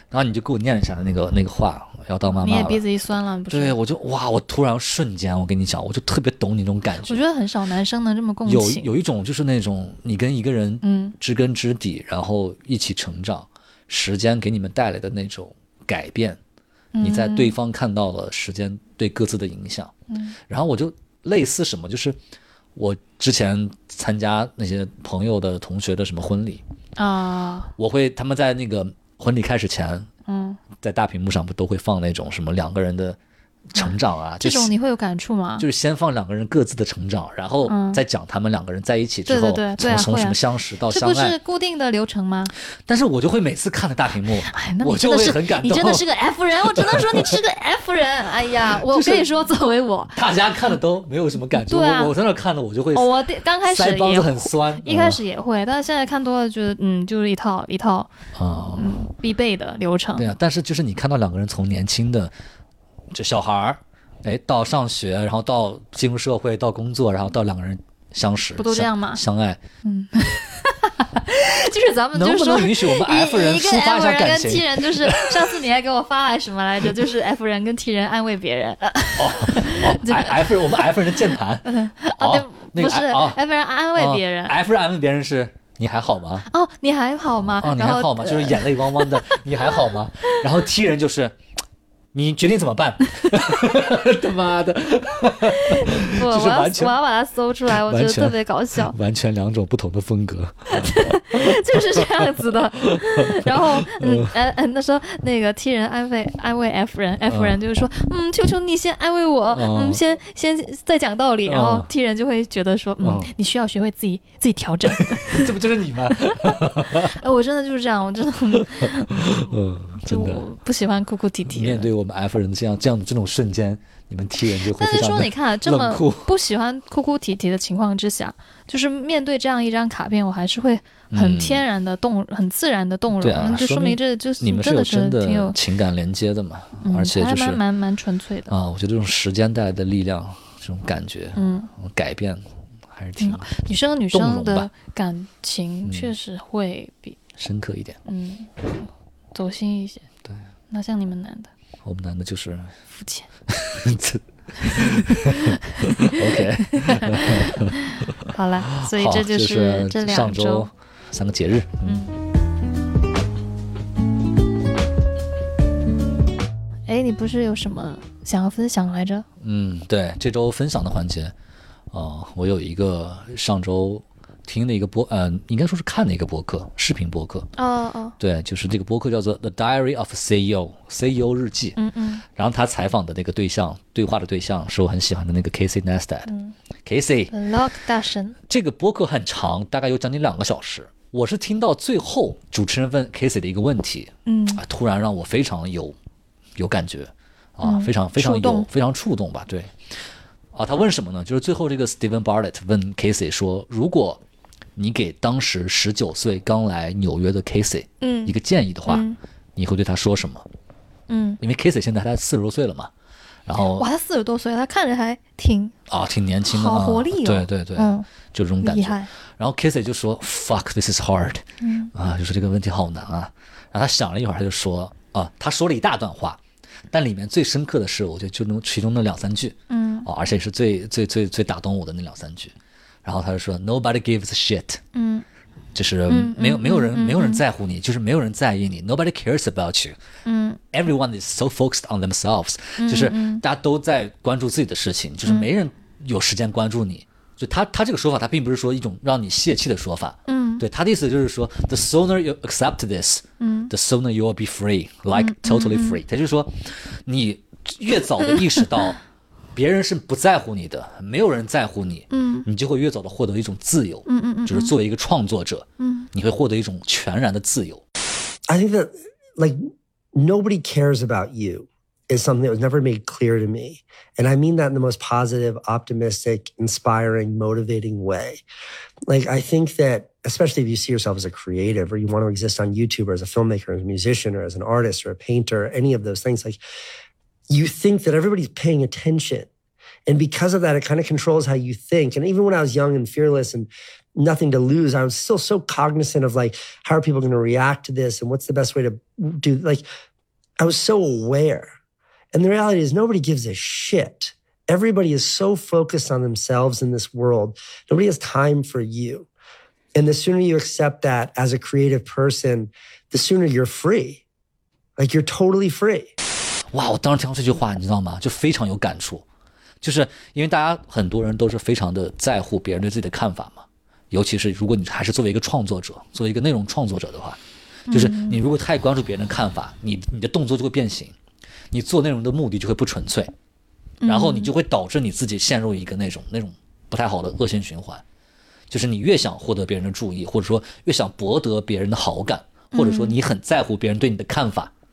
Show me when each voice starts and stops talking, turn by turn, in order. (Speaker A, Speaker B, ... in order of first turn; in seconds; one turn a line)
Speaker A: 0.1-2.8
Speaker B: 2.3-3.8
Speaker A: 3.5-7.2
Speaker B: 7.0-8.9
Speaker A: 8.5-16.4
Speaker B: 10.8-11.2
Speaker B: 16.9-17.6
Speaker A: 17.0-19.9
Speaker B: 20.1-20.4
Speaker A: 20.5-22.2
Speaker A: 22.8-26.6
Speaker B: 27.0-27.7
Speaker A: 27.8-30.1
Speaker B: 30.3-30.6
Speaker A: 30.8-33.2
Speaker A: 33.7-34.7
Speaker B: 33.8-35.7
Speaker A: 35.6-41.4
Speaker B: 37.7-38.0
Speaker B: 39.3-40.4
Speaker B: 40.9-42.5
Speaker A: 42.9-46.0
Speaker B: 44.4-50.2
Speaker A: 46.6-47.4
Speaker A: 48.7-49.3
Speaker A: 50.1-55.2
Speaker B: 51.5-52.1
Speaker B: 52.9-58.1
Speaker A: 58.4-58.9
Speaker B: 58.8-60.3
Speaker A: 60.2-62.3
Speaker A: 63.1-69.6
Speaker B: 68.6-69.2
Speaker B: 69.8-84.6
Speaker A: 72.1-75.6
Speaker A: 79.2-83.4
Speaker A: 84.0-86.5
Speaker B: 86.5-90.4
Speaker A: 87.6-91.3
Speaker A: 92.1-97.0
Speaker B: 93.2-93.8
Speaker B: 95.4-99.0
Speaker A: 97.7-102.3
Speaker B: 100.7-115.6
Speaker A: 102.8-104.3
Speaker A: 107.3-107.6
Speaker A: 109.5-110.0
Speaker A: 111.5-111.9
Speaker A: 113.0-113.3
Speaker A: 114.9-117.2
Speaker B: 116.1-121.9
Speaker A: 118.6-120.5
Speaker A: 121.5-126.3
Speaker B: 124.8-135.6
Speaker A: 131.1-131.7
Speaker A: 133.2-137.6
Speaker B: 136.8-138.5
Speaker A: 138.5-143.5
Speaker B: 141.4-141.7
Speaker B: 143.2-147.2
Speaker A: 144.1-144.7
Speaker A: 145.8-146.1
Speaker A: 147.4-148.0
Speaker B: 148.1-150.1
Speaker B: 150.7-151.5
Speaker A: 151.8-152.8
Speaker B: 152.9-153.3
Speaker A: 153.5-158.1
Speaker B: 154.6-160.7
Speaker A: 158.8-162.0
Speaker B: 161.8-162.2
Speaker B: 166.9-169.3
Speaker A: 169.4-171.3
Speaker A: 171.9-177.5
Speaker B: 177.6-178.2
Speaker A: 178.2-181.8
Speaker B: 181.8-182.2
Speaker A: 182.3-186.3
Speaker B: 186.3-186.6
Speaker A: 186.8-187.3
Speaker B: 187.3-188.4
Speaker A: 188.5-196.0
Speaker B: 194.3-194.6
Speaker A: 196.6-199.8
Speaker B: 197.6-198.7
Speaker A: 200.5-204.2
Speaker A: 204.8-210.5
Speaker B: 208.0-208.4
Speaker B: 208.9-209.2
Speaker B: 211.1-211.4
Speaker A: 211.4-212.9
Speaker A: 213.5-213.9
Speaker B: 213.8-215.7
Speaker A: 215.9-226.4
Speaker B: 216.4-218.1
Speaker B: 218.6-219.1
Speaker B: 221.6-221.9
Speaker A: 226.9-234.8
Speaker B: 229.7-230.1
Speaker B: 234.9-235.2
Speaker A: 235.8-240.0
Speaker B: 236.1-237.4
Speaker B: 240.2-240.6
Speaker A: 240.7-259.0
Speaker B: 242.8-243.4
Speaker B: 250.3-250.7
Speaker B: 253.4-253.7
Speaker B: 255.1-256.0
Speaker B: 258.3-258.7
Speaker A: 259.5-267.8
Speaker B: 262.1-262.5
Speaker B: 264.1-264.8
Speaker B: 265.8-266.1
Speaker C: 268.5-269.6
Speaker C: 270.1-278.4
Speaker C: 279.1-286.6
Speaker C: 287.5-289.5
Speaker C: 290.1-299.9
Speaker C: 300.6-301.7
Speaker C: 302.3-309.3
Speaker C: 309.9-314.2
Speaker C: 315.0-316.1
Speaker A: 316.7-319.2
Speaker A: 319.8-327.4
Speaker B: 327.9-328.4
Speaker A: 327.9-331.1
Speaker A: 331.7-333.3
Speaker B: 334.0-334.5
Speaker A: 334.1-338.0
Speaker A: 338.7-344.7
Speaker B: 342.7-343.2